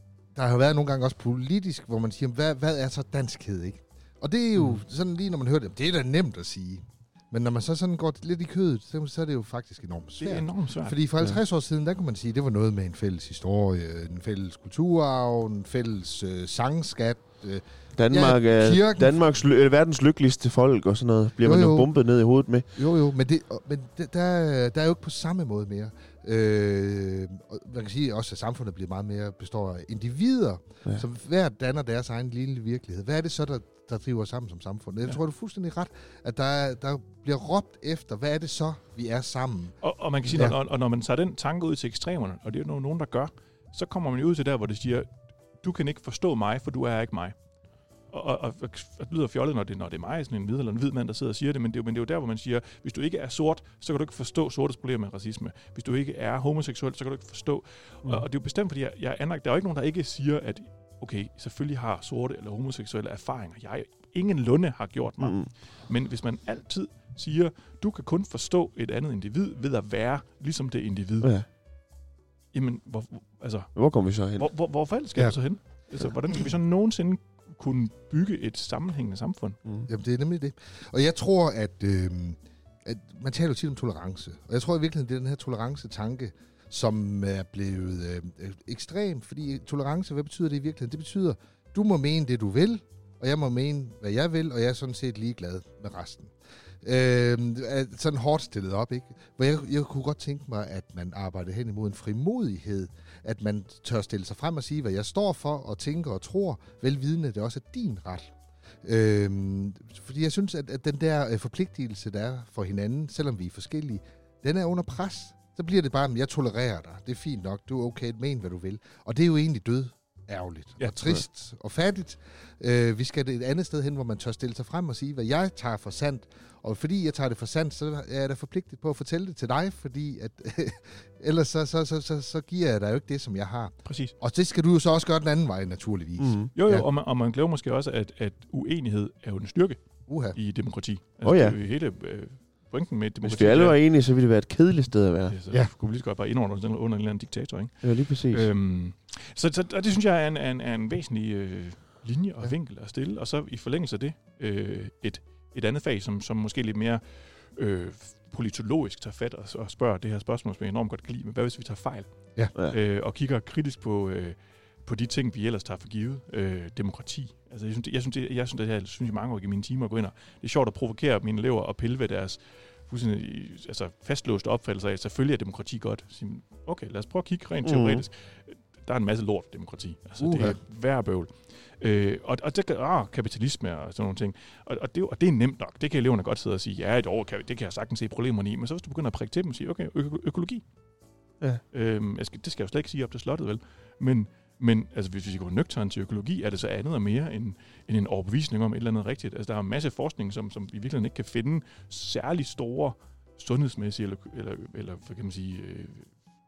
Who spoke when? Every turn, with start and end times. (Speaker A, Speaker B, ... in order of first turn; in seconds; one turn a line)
Speaker A: 0.3-19.2
Speaker B: 10.2-11.0
Speaker C: 18.0-22.6
Speaker A: 21.4-21.9
Speaker A: 22.8-39.8
Speaker B: 39.8-45.1
Speaker B: 45.6-47.3
Speaker B: 48.1-71.3
Speaker C: 65.2-65.5
Speaker B: 72.5-73.7
Speaker C: 73.7-74.5
Speaker B: 74.3-79.6
Speaker A: 79.9-96.3
Speaker A: 96.8-136.8
Speaker B: 120.8-121.1
Speaker B: 133.8-134.1
Speaker C: 136.2-136.5
Speaker B: 136.5-139.8
Speaker A: 140.1-140.4
Speaker B: 140.3-143.8
Speaker C: 141.2-141.6
Speaker C: 143.2-145.3
Speaker B: 145.3-162.1
Speaker C: 147.8-148.5
Speaker B: 162.6-190.6
Speaker C: 177.6-178.0
Speaker A: 180.2-180.5
Speaker B: 191.7-206.1